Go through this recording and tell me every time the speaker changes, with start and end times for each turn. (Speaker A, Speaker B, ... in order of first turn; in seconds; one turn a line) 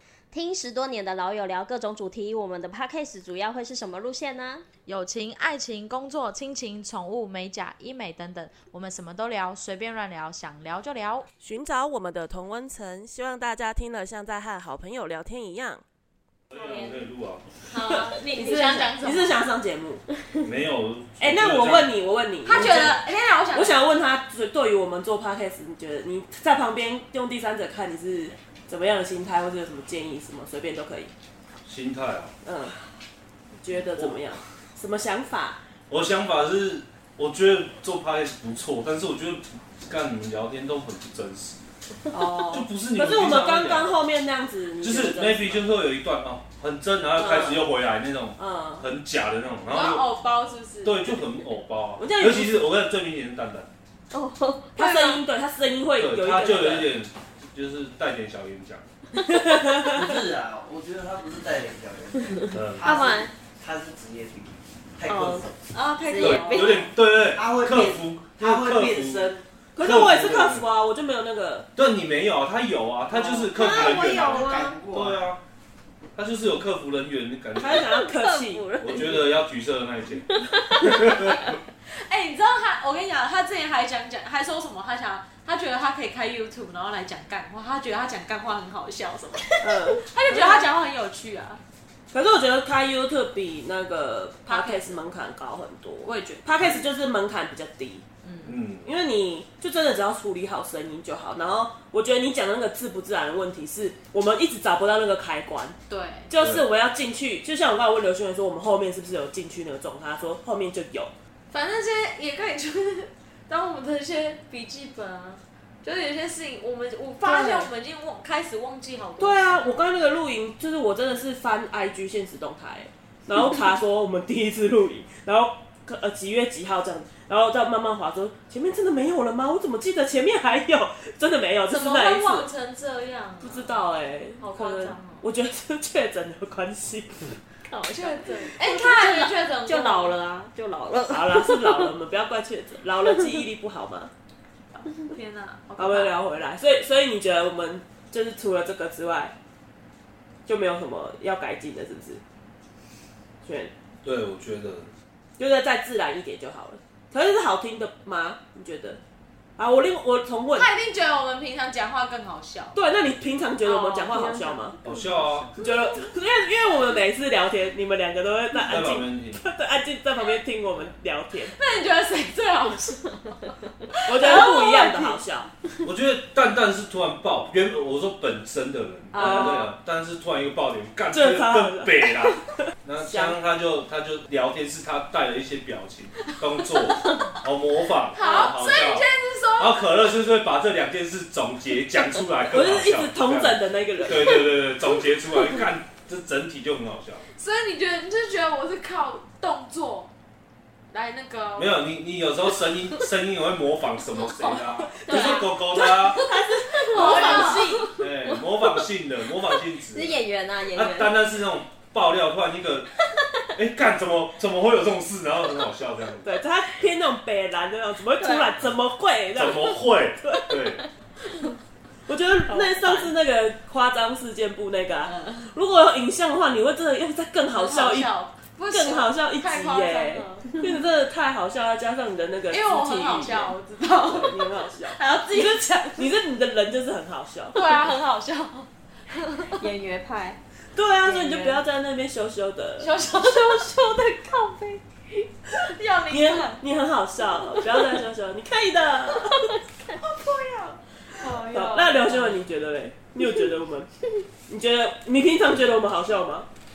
Speaker A: 0.3-4.6
Speaker B: 4.8-11.3
Speaker C: 11.4-15.8
Speaker D: 16.5-17.4
Speaker A: 16.7-16.9
Speaker E: 17.7-19.3
Speaker C: 17.9-20.0
Speaker D: 20.4-21.9
Speaker C: 21.2-23.0
Speaker D: 22.5-23.0
Speaker E: 22.5-23.7
Speaker C: 23.5-31.1
Speaker D: 31.6-32.3
Speaker C: 32.4-32.8
Speaker C: 33.5-35.6
Speaker D: 33.9-34.3
Speaker D: 35.9-41.6
Speaker C: 42.1-45.7
Speaker D: 42.5-43.9
Speaker D: 44.8-50.2
Speaker C: 47.2-47.7
Speaker C: 48.4-48.9
Speaker E: 49.7-51.3
Speaker D: 50.8-53.7
Speaker C: 52.0-52.5
Speaker A: 54.1-55.1
Speaker C: 54.7-56.9
Speaker E: 54.8-55.1
Speaker D: 56.0-58.8
Speaker C: 59.5-59.9
Speaker F: 59.8-65.6
Speaker D: 62.5-62.8
Speaker A: 62.8-63.3
Speaker A: 65.0-65.5
Speaker E: 65.7-66.0
Speaker A: 66.0-66.9
Speaker D: 66.2-70.7
Speaker F: 67.3-69.4
Speaker C: 69.7-71.7
Speaker D: 71.8-75.4
Speaker A: 73.4-74.8
Speaker F: 73.5-75.3
Speaker D: 76.1-77.9
Speaker C: 77.6-78.7
Speaker A: 77.8-79.2
Speaker D: 78.8-80.2
Speaker A: 80.1-81.6
Speaker D: 80.9-81.3
Speaker E: 81.8-91.6
Speaker C: 89.6-90.7
Speaker C: 92.1-98.0
Speaker E: 94.5-94.8
Speaker E: 96.0-96.5
Speaker D: 98.4-98.9
Speaker C: 98.8-105.8
Speaker E: 105.9-106.3
Speaker C: 106.3-111.1
Speaker D: 106.4-106.6
Speaker E: 111.5-119.1
Speaker C: 117.2-117.7
Speaker B: 117.5-117.9
Speaker B: 119.0-119.5
Speaker C: 119.2-132.5
Speaker E: 131.7-133.6
Speaker C: 133.4-137.3
Speaker B: 134.4-134.9
Speaker E: 134.5-135.2
Speaker E: 137.7-140.2
Speaker A: 138.2-141.9
Speaker B: 138.5-139.2
Speaker C: 141.1-144.1
Speaker E: 144.7-146.1
Speaker C: 145.8-149.3
Speaker C: 150.4-152.2
Speaker C: 153.4-153.7
Speaker D: 154.0-154.9
Speaker C: 155.4-159.0
Speaker C: 159.6-160.7
Speaker E: 160.6-162.7
Speaker C: 162.7-164.8
Speaker E: 163.6-164.9
Speaker D: 164.8-165.5
Speaker C: 165.5-171.5
Speaker D: 168.7-169.4
Speaker E: 171.5-175.2
Speaker C: 174.1-175.5
Speaker D: 175.8-197.2
Speaker E: 179.1-179.6
Speaker C: 179.1-179.7
Speaker C: 181.1-183.4
Speaker E: 188.2-189.8
Speaker C: 188.2-188.5
Speaker C: 192.5-194.4
Speaker E: 197.3-200.1
Speaker B: 199.1-199.4
Speaker E: 200.9-201.9
Speaker D: 201.6-206.2
Speaker C: 205.0-207.8
Speaker E: 205.1-207.8
Speaker A: 206.9-211.3
Speaker D: 207.1-210.2
Speaker D: 210.7-212.9
Speaker A: 213.1-213.4
Speaker D: 213.6-216.3
Speaker C: 216.2-220.5
Speaker A: 218.2-218.5
Speaker D: 219.3-220.8
Speaker C: 222.1-228.1
Speaker E: 222.5-223.0
Speaker E: 225.1-225.4
Speaker E: 227.5-230.4
Speaker C: 228.7-237.9
Speaker B: 228.8-229.1
Speaker B: 229.6-230.1
Speaker E: 232.5-234.4
Speaker B: 233.0-233.5
Speaker E: 234.9-236.1
Speaker E: 237.5-239.7
Speaker A: 239.4-240.4
Speaker C: 240.7-242.9
Speaker E: 241.1-241.6
Speaker E: 242.8-246.6
Speaker C: 246.1-249.5
Speaker E: 250.0-252.4
Speaker C: 251.4-253.9
Speaker C: 254.5-256.5